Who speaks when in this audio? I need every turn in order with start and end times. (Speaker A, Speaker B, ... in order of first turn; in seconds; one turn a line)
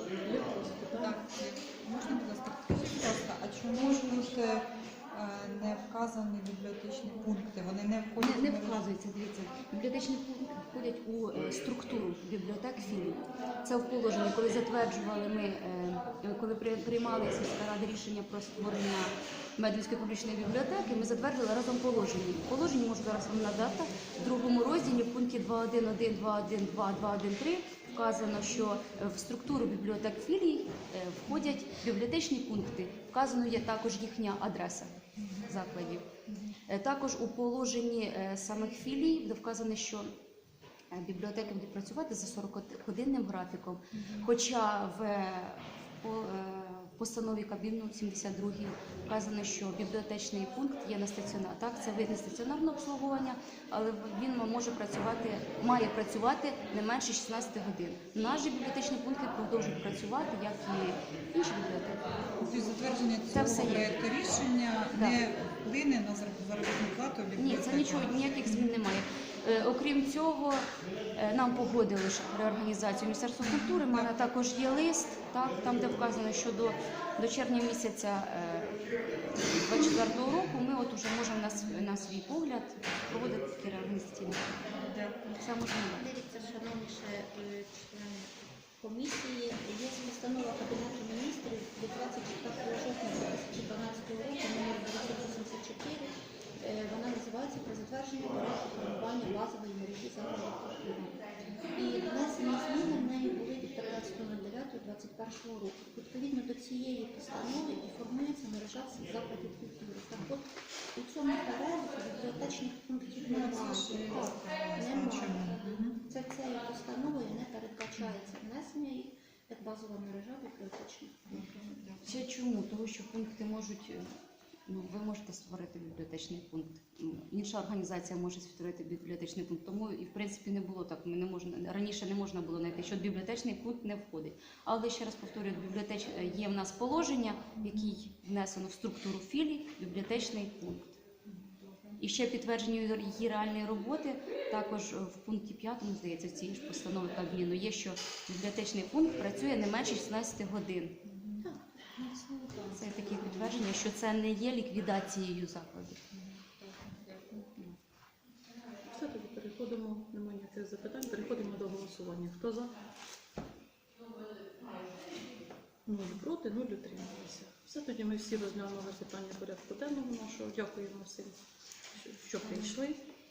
Speaker A: 0.2-1.2
Speaker B: 0.9-8.8
Speaker C: 8.2-36.1
Speaker B: 35.2-35.5
Speaker B: 36.3-36.6
Speaker C: 36.7-40.1
Speaker C: 40.9-62.1
Speaker B: 43.9-44.3
Speaker B: 62.4-68.7
Speaker C: 63.3-63.9
Speaker C: 64.9-65.2
Speaker C: 67.4-78.8
Speaker B: 73.4-74.2
Speaker C: 79.3-84.7
Speaker B: 84.7-85.3
Speaker C: 85.4-86.1
Speaker D: 85.9-101.1
Speaker D: 101.7-121.8
Speaker B: 113.2-116.0
Speaker B: 121.3-122.2
Speaker C: 122.0-124.1
Speaker C: 124.7-141.0
Speaker B: 137.6-137.9
Speaker B: 141.3-142.0
Speaker C: 142.0-151.0
Speaker B: 151.1-153.5
Speaker D: 151.4-152.0
Speaker C: 152.7-156.0
Speaker B: 156.2-157.5
Speaker A: 158.8-162.8
Speaker A: 165.9-171.4
Speaker A: 171.9-173.0